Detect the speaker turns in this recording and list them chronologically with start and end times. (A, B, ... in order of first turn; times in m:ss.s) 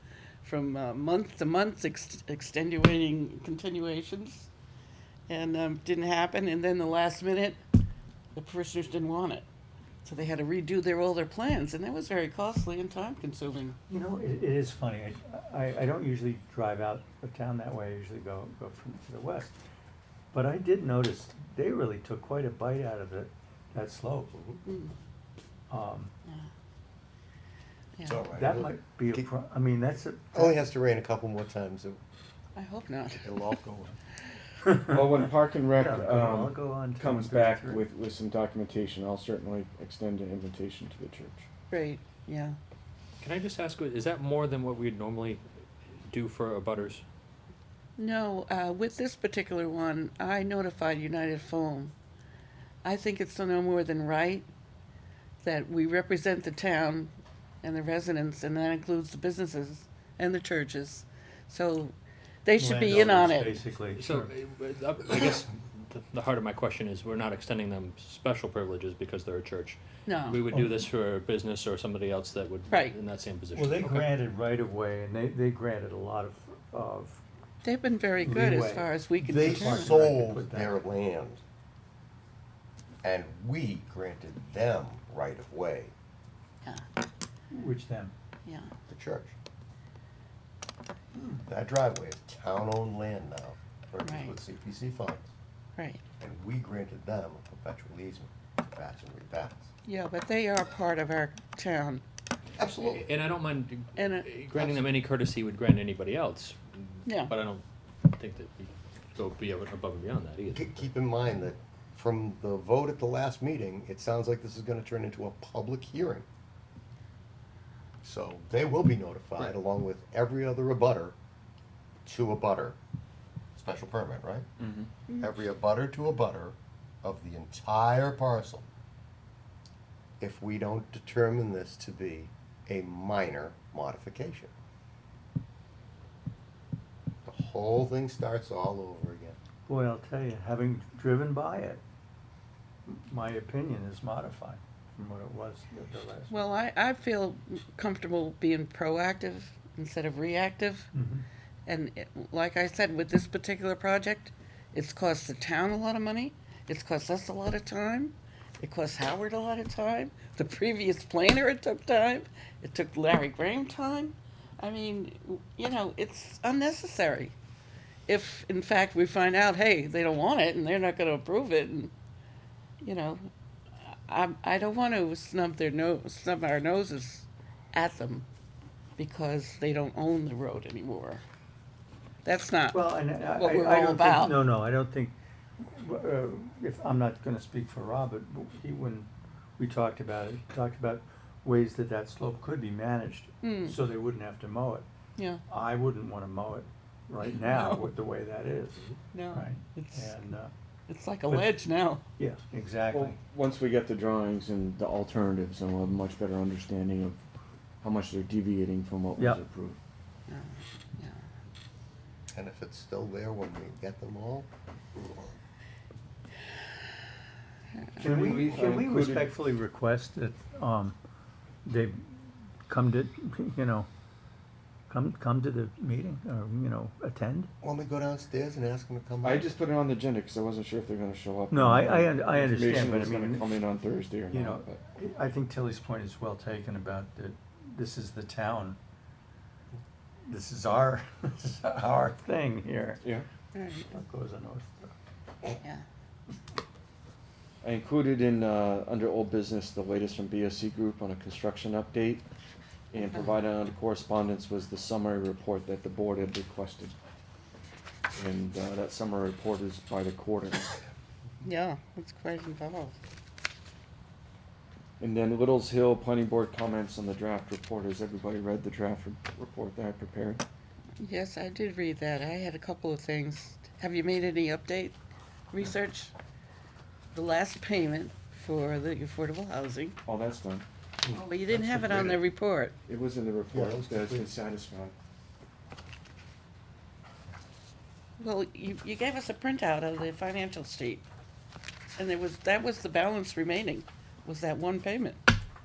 0:00.4-0:04.5 A
0:05.3-0:07.6 A
0:08.3-0:09.4 A
0:10.0-0:13.8 A
0:13.9-0:19.6 B
0:20.3-0:24.3 B
0:24.3-0:24.6 C
0:24.6-0:24.9 A
0:25.7-0:26.1 B
0:28.0-0:29.3 C
0:28.3-0:30.6 B
0:30.3-0:32.0 C
0:32.6-0:33.6 A
0:33.2-0:34.0 C
0:34.7-0:35.0 B
0:34.8-0:41.4 D
0:35.8-0:37.8 B
0:41.7-0:42.6 A
0:43.2-0:45.4 E
0:46.0-0:47.0 E
0:48.0-0:51.9 A
0:52.8-0:54.5 A
0:55.4-0:57.1 A
0:57.6-1:01.9 A
1:02.4-1:03.6 A
1:02.6-1:04.3 B
1:03.9-1:14.1 E
1:10.0-1:10.4 A
1:10.5-1:10.8 B
1:12.7-1:12.9 A
1:13.5-1:17.2 B
1:17.6-1:20.0 A
1:18.2-1:20.8 B
1:19.2-1:21.4 C
1:23.0-1:25.9 C
1:27.5-1:28.1 B
1:28.4-1:28.7 A
1:28.9-1:29.3 C
1:31.4-1:35.3 C
1:34.0-1:34.4 A
1:35.8-1:36.0 A
1:36.2-1:39.7 C
1:39.8-1:42.0 A
1:42.6-1:43.0 C
1:42.6-1:50.9 E
1:44.0-1:44.8 A
1:47.0-1:47.3 A
1:50.5-1:56.2 C
1:58.0-2:01.1 C
2:02.0-2:02.8 C
2:03.6-2:04.5 C
2:04.6-2:04.9 D
2:05.1-2:05.4 A
2:05.2-2:08.6 C
2:10.2-2:14.5 C
2:17.2-2:19.4 C
2:19.7-2:21.8 B
2:22.9-2:26.4 B
2:26.3-2:30.9 A
2:30.9-2:31.2 B
2:31.7-2:47.4 A
2:48.1-2:51.9 A
2:52.8-2:53.2 A
2:53.8-2:58.3 A
2:59.0-3:01.2 A
3:02.2-3:04.5 A
3:02.7-3:14.8 B
3:13.4-3:13.8 A
3:15.2-3:15.4 A
3:15.5-3:20.5 B
3:17.4-3:17.8 A
3:19.1-3:20.1 A
3:20.9-3:22.0 A
3:21.3-3:21.5 B
3:22.2-3:23.2 B
3:22.9-3:27.2 D
3:27.8-3:29.8 D
3:29.2-3:29.4 B
3:30.3-3:31.2 A
3:32.3-3:34.5 C
3:38.0-3:41.0 B
3:38.1-3:39.4 D
3:41.6-3:42.0 B
3:42.7-3:43.9 B
3:44.9-3:47.5 B
3:47.6-3:49.5 C
3:49.2-3:54.8 D
3:51.5-3:53.5 B
3:54.3-3:58.8 B
4:00.3-4:03.0 B
4:03.5-4:03.9 A
4:03.9-4:04.9 B
4:07.6-4:12.3 D
4:12.9-4:16.9 D
4:18.1-4:20.7 D
4:21.4-4:23.0 A
4:25.0-4:30.4 D
4:31.0-4:35.0 A
4:35.5-4:36.1 A
4:37.1-4:40.0 A
4:40.0-4:40.6 D
4:41.1-4:42.7 A
4:41.9-4:42.2 C
4:42.9-4:44.9 D
4:43.5-4:44.3 C
4:48.2-4:51.0 A
4:52.0-4:55.2 A